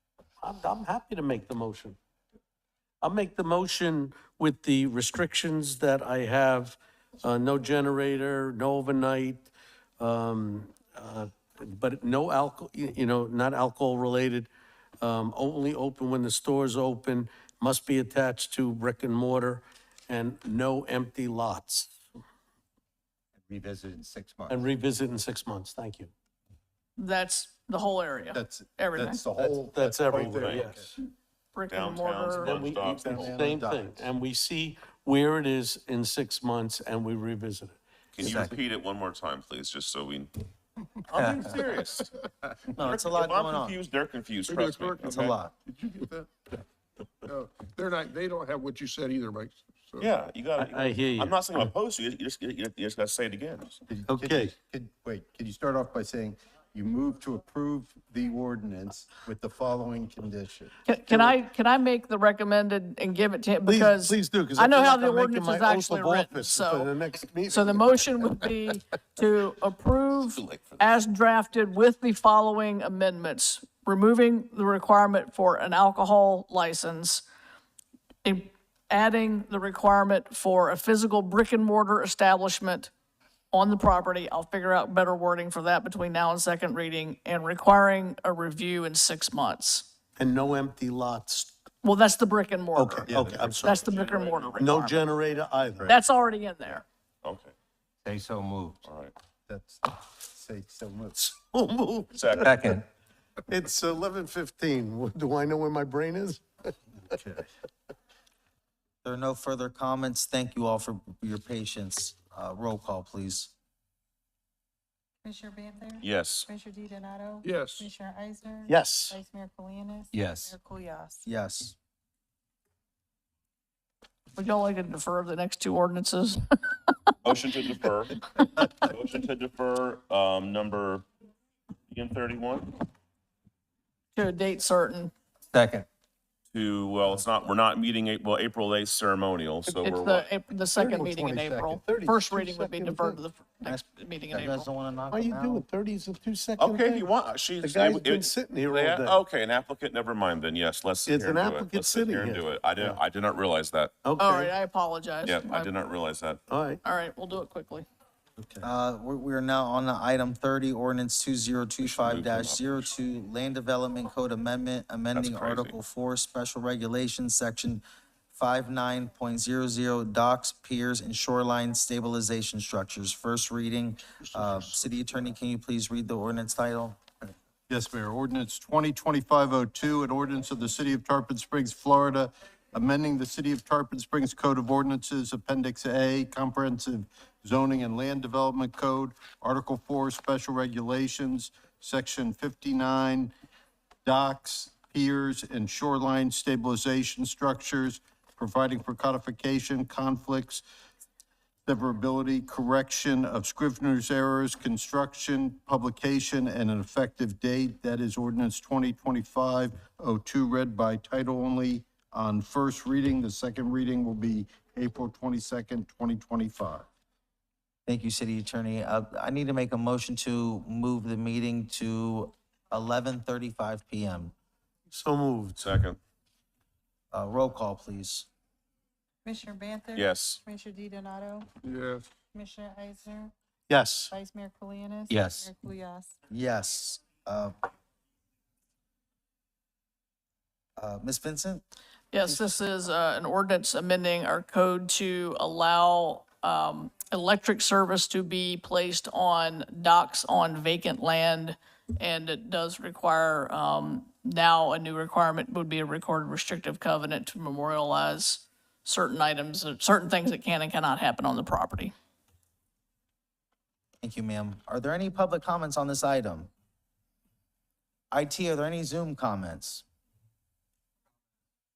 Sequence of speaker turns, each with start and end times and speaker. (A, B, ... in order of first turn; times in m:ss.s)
0:00.4-0:02.0 A
0:03.0-0:09.5 A
0:10.0-0:14.5 A
0:15.0-0:22.0 A
0:23.5-0:24.6 B
0:24.5-0:26.1 A
0:27.0-0:29.2 C
0:28.3-0:30.9 D
0:29.4-0:30.8 A
0:30.2-0:30.7 E
0:31.5-0:32.6 C
0:31.7-0:33.3 E
0:32.4-0:34.1 D
0:32.6-0:37.8 A
0:38.1-0:40.3 E
0:38.2-0:38.5 F
0:41.0-0:42.1 E
0:41.1-0:41.5 F
0:42.7-0:43.8 F
0:42.8-0:45.4 E
0:44.5-0:45.0 G
0:45.0-0:45.5 F
0:45.6-0:46.3 G
0:47.3-0:50.1 G
0:50.0-0:53.8 E
0:50.6-0:51.3 A
0:53.9-1:00.7 D
0:54.1-0:54.5 A
1:00.8-1:06.9 C
1:01.1-1:01.3 A
1:03.6-1:08.2 A
1:07.5-1:17.2 C
1:10.2-1:11.0 E
1:18.2-1:22.9 C
1:23.5-1:29.9 C
1:30.2-1:31.5 A
1:31.8-1:35.0 C
1:32.8-1:33.7 A
1:33.1-1:33.5 D
1:33.1-1:34.7 E
1:34.6-1:35.9 A
1:35.8-1:36.8 C
1:37.2-1:37.5 E
1:38.0-1:38.8 B
1:38.8-1:39.1 E
1:39.5-1:41.1 D
1:41.2-1:42.6 A
1:42.1-1:42.6 E
1:42.5-1:42.8 B
1:43.5-1:46.4 A
1:47.1-1:47.4 D
1:49.0-1:53.5 F
1:55.2-2:01.2 H
1:56.0-1:56.5 E
1:57.4-1:57.8 G
1:58.7-1:59.2 A
2:00.1-2:00.5 B
2:01.2-2:01.8 F
2:04.3-2:06.9 C
2:07.2-2:11.0 E
2:11.9-2:12.7 E
2:14.1-2:15.1 C
2:16.5-2:20.2 E
2:19.8-2:24.6 C
2:20.8-2:23.2 D
2:22.5-2:22.8 A
2:23.6-2:25.6 F
2:25.1-2:27.0 A
2:26.6-2:33.9 E
2:27.6-2:29.2 A
2:31.0-2:32.9 A
2:34.0-2:34.5 A
2:34.2-2:35.7 C
2:35.2-2:36.4 E
2:36.5-2:36.8 A
2:36.8-2:37.8 C
2:38.4-2:38.7 D
2:38.6-2:57.0 F
2:41.8-2:42.9 E
2:45.1-2:45.8 E
2:54.2-2:54.8 G
2:57.7-3:13.3 D
3:14.0-3:20.6 D
3:21.6-3:36.8 D
3:37.9-3:44.3 F
3:44.9-3:45.7 A
3:45.6-3:46.0 E
3:47.1-3:48.3 F
3:49.2-3:51.5 H
3:49.9-3:50.4 E
3:51.6-3:52.1 G
3:52.3-3:53.3 H
3:53.7-3:54.1 A
3:54.1-3:56.1 H
3:56.3-3:57.5 F
4:00.8-4:01.6 F
4:02.1-4:21.9 C
4:24.0-4:26.5 F
4:28.1-4:29.8 F